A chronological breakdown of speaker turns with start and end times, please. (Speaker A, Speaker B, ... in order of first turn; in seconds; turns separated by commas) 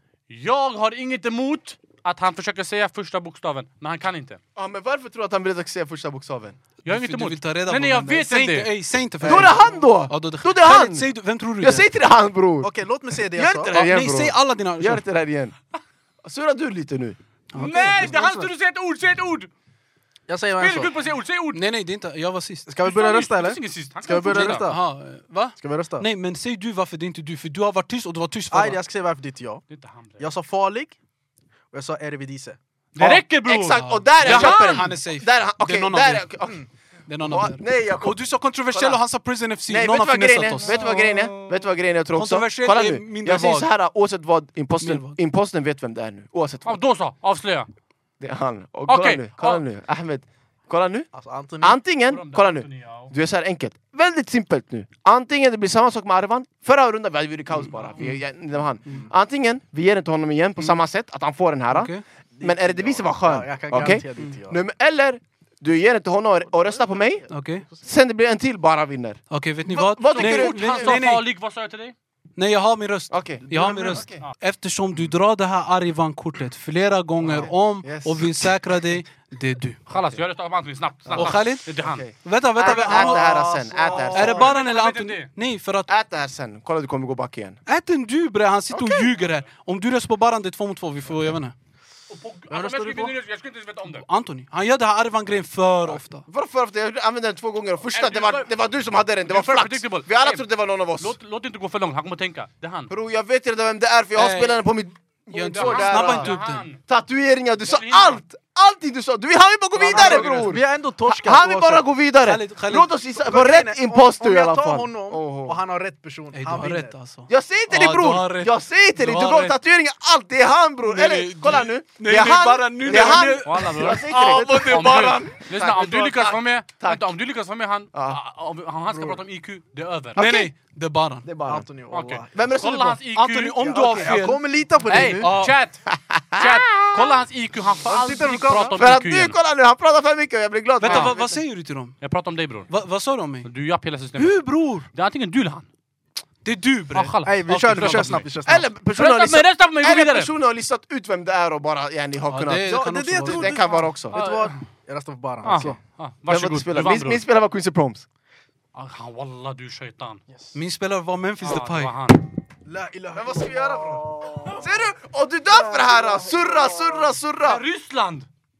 Speaker A: 0.3-4.4, Speaker B: 4.5-6.6, Speaker C: 6.8-11.9, Speaker A: 6.8-8.7, Speaker B: 9.2-12.7, Speaker D: 9.2-9.7, Speaker D: 12.6-13.8, Speaker B: 13.3-15.6, Speaker C: 13.7-15.0, Speaker B: 16.2-17.2, Speaker C: 17.5-18.1, Speaker A: 17.5-19.5, Speaker D: 17.7-18.5, Speaker D: 20.3-20.9, Speaker A: 20.6-21.6, Speaker C: 21.5-22.7, Speaker D: 22.7-24.8, Speaker A: 22.8-24.7, Speaker C: 24.2-28.8, Speaker D: 25.6-26.1, Speaker D: 28.5-29.6, Speaker A: 29.7-30.3, Speaker D: 30.2-31.0, Speaker D: 31.7-32.6, Speaker A: 32.9-34.8, Speaker B: 33.0-36.6, Speaker C: 33.8-36.3, Speaker C: 37.1-41.4, Speaker B: 37.2-39.0, Speaker B: 39.7-46.8, Speaker C: 42.1-43.7, Speaker C: 44.8-45.2, Speaker A: 46.6-47.7, Speaker B: 48.2-51.1, Speaker A: 48.9-49.6, Speaker D: 51.1-51.8, Speaker B: 51.6-67.3, Speaker A: 52.1-53.1, Speaker C: 61.7-62.0, Speaker D: 62.3-64.6, Speaker C: 63.9-64.3, Speaker D: 66.6-67.8, Speaker C: 67.3-67.6, Speaker B: 67.8-71.0, Speaker C: 69.3-71.2, Speaker A: 70.1-71.9, Speaker C: 72.3-79.8, Speaker B: 73.1-74.2, Speaker D: 73.5-74.0, Speaker B: 77.2-78.5, Speaker A: 79.9-82.0, Speaker B: 81.1-84.5, Speaker C: 81.2-83.3, Speaker D: 82.6-84.5, Speaker A: 84.0-85.3, Speaker C: 84.1-85.9, Speaker B: 85.9-87.6, Speaker C: 87.7-91.5, Speaker B: 88.7-89.1, Speaker A: 92.1-94.0, Speaker D: 92.5-93.2, Speaker C: 93.9-96.3, Speaker B: 96.2-101.1, Speaker A: 97.9-98.5, Speaker A: 99.2-100.5, Speaker A: 101.0-102.9, Speaker B: 102.9-106.3, Speaker C: 104.2-104.6, Speaker C: 105.3-106.7, Speaker A: 105.5-106.8, Speaker B: 106.8-115.6, Speaker A: 107.6-108.2, Speaker C: 109.8-110.3, Speaker D: 109.9-111.8, Speaker A: 109.9-110.3, Speaker C: 112.2-112.9, Speaker D: 113.1-117.0, Speaker C: 116.3-119.6, Speaker B: 117.3-125.0, Speaker C: 120.8-125.4, Speaker A: 122.9-130.2, Speaker B: 125.5-127.1, Speaker B: 127.9-128.2, Speaker D: 128.9-129.2, Speaker B: 130.2-130.5, Speaker C: 130.2-131.3, Speaker B: 131.2-131.7, Speaker D: 131.4-132.4, Speaker A: 131.9-133.7, Speaker B: 132.3-133.0, Speaker C: 133.1-135.6, Speaker D: 133.6-135.3, Speaker A: 134.8-135.8, Speaker B: 135.9-137.1, Speaker A: 136.3-139.3, Speaker D: 137.8-138.8, Speaker B: 138.8-141.4, Speaker C: 140.8-141.9, Speaker A: 140.8-141.1, Speaker A: 142.0-142.7, Speaker C: 142.7-143.5, Speaker A: 143.4-145.7, Speaker C: 144.1-144.9, Speaker C: 146.4-148.2, Speaker A: 146.9-148.2, Speaker D: 147.2-148.7, Speaker B: 148.4-154.2, Speaker A: 148.9-150.3, Speaker C: 152.3-153.6, Speaker D: 152.6-155.8, Speaker A: 154.1-154.6, Speaker A: 155.4-157.2, Speaker B: 156.3-158.1, Speaker A: 158.7-160.2, Speaker C: 160.5-161.9, Speaker A: 161.4-162.2, Speaker D: 162.6-164.8, Speaker B: 163.1-167.6, Speaker D: 165.5-167.0, Speaker A: 167.4-168.3